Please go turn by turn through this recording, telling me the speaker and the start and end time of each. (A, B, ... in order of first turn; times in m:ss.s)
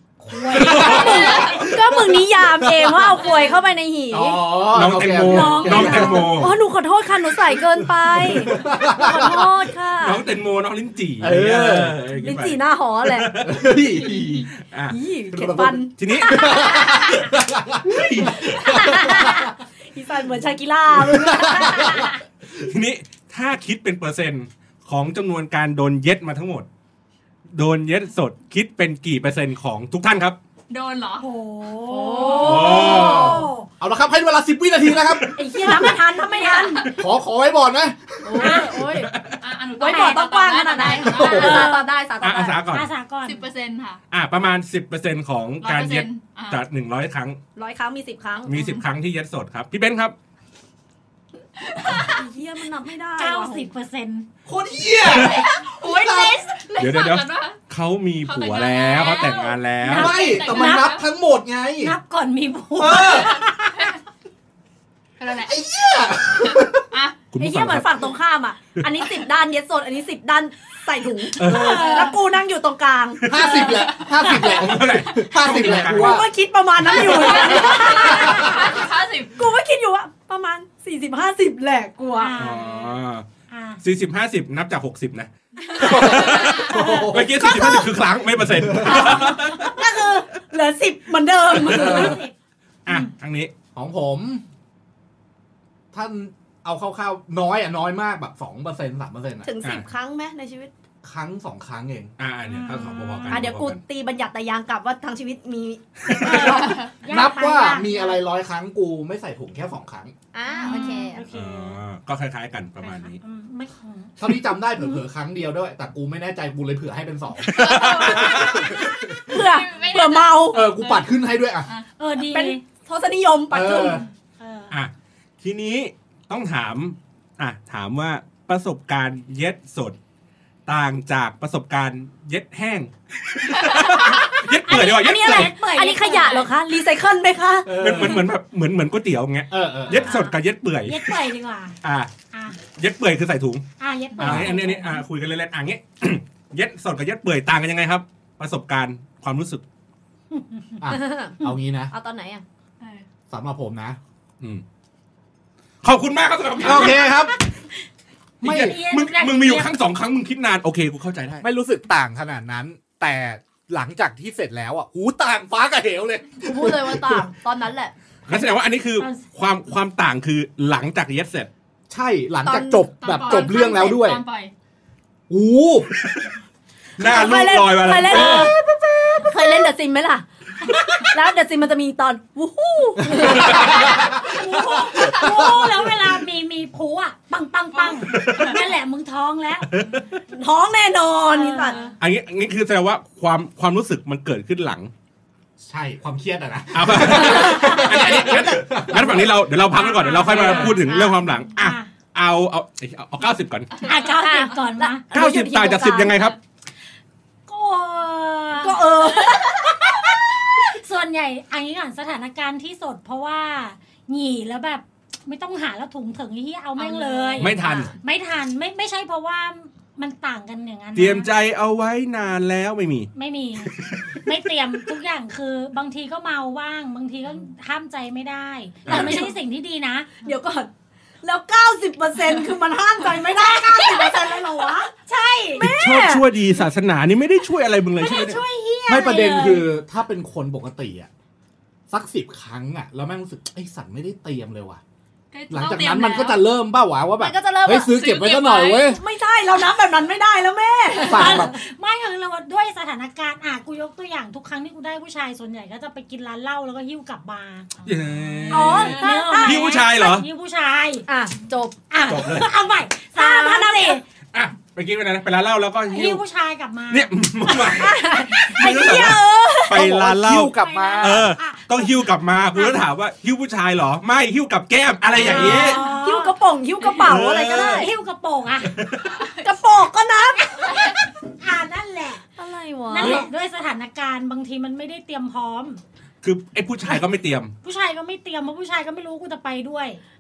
0:00.2-0:01.7 A
0:00.5-0:03.2 B
0:00.5-0:01.4 C
0:00.7-0:04.6 D
0:00.8-0:01.6 E
0:04.1-0:06.5 B
0:04.7-0:06.6 C
0:05.2-0:06.4 A
0:05.5-0:10.2 D
0:08.0-0:09.5 B
0:09.0-0:09.5 A
0:10.0-0:13.8 C
0:11.2-0:12.0 B
0:12.2-0:13.4 D
0:13.4-0:14.5 B
0:14.0-0:17.3 D
0:14.5-0:15.0 C
0:15.3-0:19.5 B
0:16.0-0:16.8 C
0:17.8-0:18.6 C
0:18.3-0:22.2 D
0:21.0-0:22.1 B
0:22.6-0:26.6 C
0:27.5-0:30.4 C
0:30.7-0:31.3 E
0:31.2-0:33.7 A
0:31.9-0:33.5 D
0:32.3-0:33.4 C
0:32.5-0:35.3 B
0:34.9-0:35.9 C
0:35.3-0:36.9 D
0:35.8-0:36.9 A
0:36.9-0:38.7 B
0:38.2-0:39.1 D
0:38.4-0:38.7 A
0:38.4-0:39.4 C
0:39.4-0:41.7 E
0:39.8-0:42.6 D
0:39.8-0:40.2 A
0:41.0-0:41.7 B
0:41.2-0:41.9 A
0:42.2-0:42.9 C
0:42.7-0:43.4 A
0:43.2-0:44.0 E
0:44.1-0:47.4 C
0:45.6-0:46.6 E
0:47.6-0:48.6 D
0:48.4-0:50.1 C
0:48.5-0:48.8 E
0:51.6-0:52.2 E
0:51.9-0:53.7 D
0:53.2-0:54.3 A
0:54.4-0:56.4 B
0:55.1-0:55.5 C
0:55.2-0:57.6 E
0:56.8-1:00.2 C
0:58.2-1:01.0 E
0:59.8-1:02.0 B
0:59.9-1:01.0 A
1:01.8-1:03.9 A
1:02.8-1:03.4 B
1:02.9-1:03.9 E
1:05.2-1:05.7 E
1:05.3-1:06.8 B
1:06.3-1:07.2 E
1:07.3-1:08.1 C
1:07.4-1:13.7 D
1:11.4-1:11.8 C
1:11.4-1:12.1 A
1:13.2-1:16.3 B
1:13.2-1:13.6 C
1:13.4-1:14.1 E
1:14.2-1:14.6 A
1:14.3-1:16.2 C
1:15.5-1:18.8 D
1:16.8-1:19.4 E
1:17.2-1:18.6 B
1:17.4-1:17.9 A
1:19.4-1:22.4 D
1:22.2-1:23.8 A
1:22.4-1:23.2 C
1:23.8-1:29.8 C
1:25.7-1:26.8 E
1:25.8-1:27.5 B
1:27.3-1:27.9 D
1:28.4-1:29.2 B
1:28.8-1:32.2 D
1:31.6-1:32.2 B
1:31.7-1:32.0 C
1:31.8-1:32.3 A
1:32.8-1:33.5 C
1:33.7-1:34.4 B
1:35.9-1:39.5 B
1:39.4-1:40.7 D
1:41.0-1:42.1 B
1:42.2-1:43.8 C
1:42.4-1:43.5 A
1:43.3-1:46.8 D
1:46.1-1:48.2 A
1:46.2-1:50.1 B
1:50.3-1:51.2 D
1:50.5-1:51.8 A
1:50.6-1:50.9 E
1:51.3-1:53.2 C
1:52.8-1:54.1 A
1:54.2-1:59.3 B
1:57.5-1:58.6 C
1:57.5-2:01.9 E
1:59.3-2:00.6 D
2:00.5-2:01.7 B
2:02.0-2:02.6 A
2:02.2-2:04.0 D
2:03.5-2:04.0 B
2:04.4-2:04.8 A
2:04.7-2:10.0 C
2:10.6-2:15.5 C
2:14.0-2:16.5 A
2:14.3-2:17.8 D
2:17.6-2:18.3 B
2:17.7-2:21.2 C
2:19.5-2:20.2 B
2:19.9-2:20.3 D
2:20.8-2:21.8 A
2:21.8-2:22.1 C
2:22.3-2:22.6 A
2:22.7-2:23.6 C
2:23.8-2:25.0 A
2:24.2-2:29.6 C
2:24.2-2:24.5 B
2:30.4-2:30.7 A
2:30.8-2:31.9 B
2:30.9-2:32.4 D
2:32.8-2:33.0 E
2:33.3-2:34.0 B
2:35.8-2:37.0 C
2:36.6-2:37.3 B
2:36.7-2:37.6 A
2:38.4-2:38.8 B
2:38.4-2:41.4 C
2:38.5-2:39.7 A
2:41.4-2:47.3 B
2:46.4-2:47.9 D
2:48.3-2:51.5 C
2:49.0-2:49.3 A
2:51.9-2:54.2 B
2:52.4-2:52.9 D
2:53.0-2:54.5 E
2:55.3-2:55.9 B
2:56.0-2:56.2 C
2:57.0-2:58.5 C
2:57.0-2:58.6 D
2:57.0-2:59.6 B
2:59.2-3:04.0 D
3:03.1-3:04.2 B
3:03.3-3:09.8 A
3:04.9-3:05.5 E
3:05.2-3:05.7 B
3:07.7-3:08.5 E
3:08.1-3:08.6 C
3:09.6-3:10.2 C
3:10.3-3:11.9 D
3:11.3-3:11.9 A
3:12.0-3:14.9 C
3:15.6-3:19.5 B
3:16.7-3:23.8 C
3:19.7-3:20.9 A
3:20.3-3:21.2 D
3:21.5-3:21.9 A
3:23.8-3:25.0 A
3:24.0-3:26.2 D
3:25.1-3:26.4 C
3:27.5-3:41.3 A
3:28.6-3:30.0 D
3:36.8-3:37.6 E
3:36.9-3:37.9 D
3:37.4-3:37.9 C
3:40.9-3:43.1 C
3:43.1-3:50.2 A
3:43.6-3:44.2 C
3:48.9-3:49.2 C
3:48.9-3:49.3 D
3:50.2-3:50.7 D
3:51.2-3:54.9 D
3:53.4-3:55.7 A
3:55.6-3:56.3 D
3:55.6-3:58.4 C
3:58.0-3:59.7 A
3:58.9-4:01.1 B
4:01.9-4:04.8 B
4:05.3-4:06.4 E
4:05.5-4:09.0 B
4:07.2-4:08.0 D
4:07.9-4:08.9 E
4:08.8-4:11.5 D
4:11.0-4:11.5 B
4:11.0-4:21.1 A
4:17.8-4:20.3 C
4:18.5-4:19.8 D
4:18.7-4:19.0 E
4:21.1-4:21.9 D
4:21.9-4:24.0 A
4:22.1-4:22.5 C
4:23.1-4:24.0 D
4:24.3-4:26.2 C
4:25.9-4:29.0 A
4:26.9-4:35.8 C
4:27.6-4:29.9 D
4:29.7-4:31.3 B
4:30.6-4:32.8 A
4:35.1-4:35.6 B
4:35.2-4:36.4 A
4:35.2-4:37.9 D
4:35.5-4:36.0 E
4:36.8-4:37.1 E
4:37.0-4:37.9 C
4:37.2-4:38.8 A
4:38.7-4:39.2 C
4:39.0-4:39.5 E
4:39.4-4:40.9 D
4:40.6-4:41.0 E
4:40.7-4:42.3 A
4:42.4-4:43.2 D
4:42.9-4:45.8 A
4:43.0-4:43.2 B
4:46.2-4:47.5 C
4:47.6-4:50.0 A